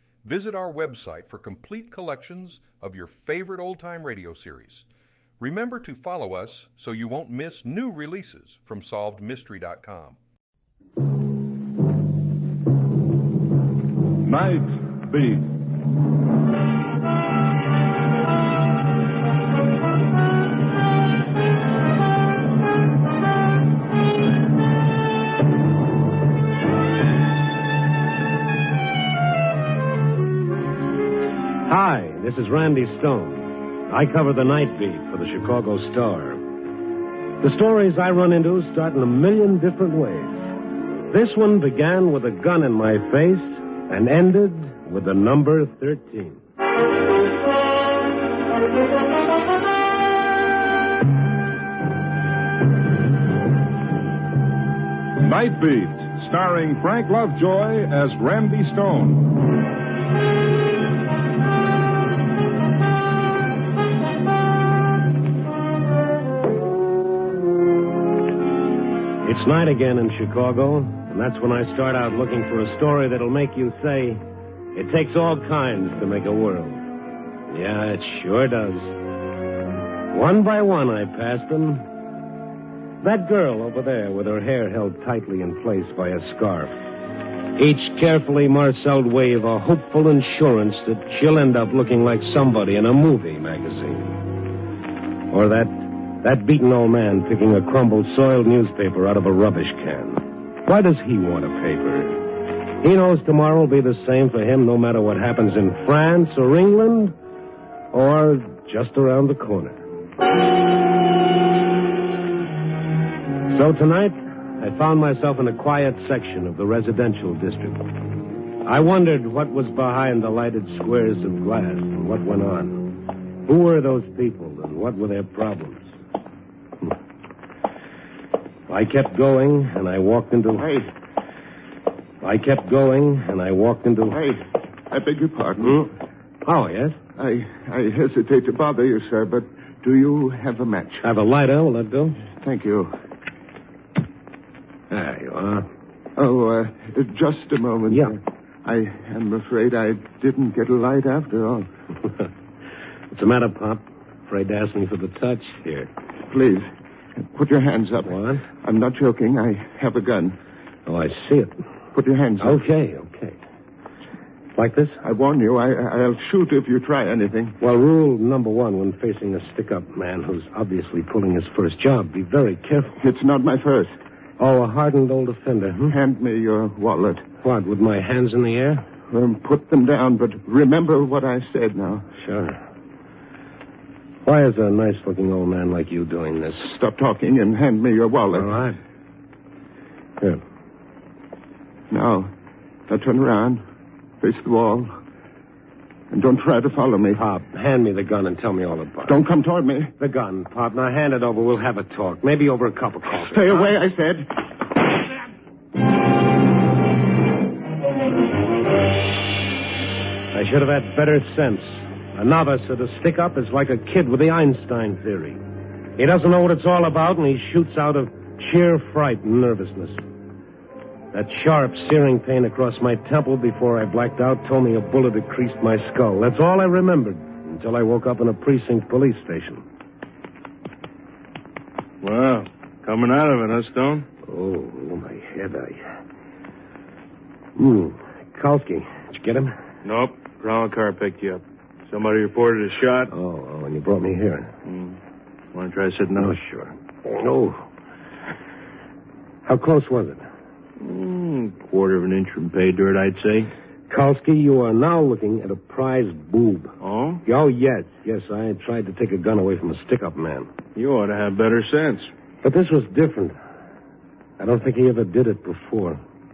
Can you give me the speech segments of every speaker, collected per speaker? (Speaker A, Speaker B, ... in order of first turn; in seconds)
Speaker A: 0.2-4.9, 5.4-10.2
Speaker B: 14.2-15.5, 55.2-59.3
Speaker C: 31.7-36.4, 37.4-40.5, 41.1-46.4, 69.2-74.2, 74.7-76.8, 77.5-79.0, 80.1-81.8, 83.0-86.7, 87.6-94.2, 95.3-102.2, 102.8-107.2, 107.9-109.8, 113.5-117.9, 118.6-122.9, 123.5-125.9, 128.7-130.7, 132.2-134.2, 135.6-135.9, 136.4-137.0, 141.0-142.2, 144.9-145.7, 153.1-155.9, 158.1-158.4, 160.9-161.5, 162.4-163.4, 164.6-165.0, 167.6-173.0, 174.4-176.0, 177.4-178.8, 182.2-182.6, 184.2-186.7, 188.3-188.8, 197.2-199.2, 200.0-203.7, 210.3-215.4, 216.0-220.0, 221.1-229.6, 234.3-235.8, 237.6-239.5, 243.1-244.5, 246.2-247.6, 249.4-250.2, 253.9-256.7, 257.3-260.5, 262.4-263.4, 264.4-266.0
Speaker D: 130.6-130.9, 134.1-134.4, 134.9-135.9, 137.2-141.0, 142.4-142.9, 146.2-151.7, 156.3-160.4, 161.9-162.6, 165.0-167.6, 173.0-173.9, 175.9-177.3, 179.1-182.1, 186.7-188.5, 191.9-192.3, 192.9-193.6, 194.2-195.0, 196.1-197.2, 199.1-199.9, 203.1-204.5
Speaker E: 232.0-234.1, 239.8-243.1, 244.7-245.0, 245.5-246.4, 250.8-253.5, 256.8-257.2, 260.8-262.1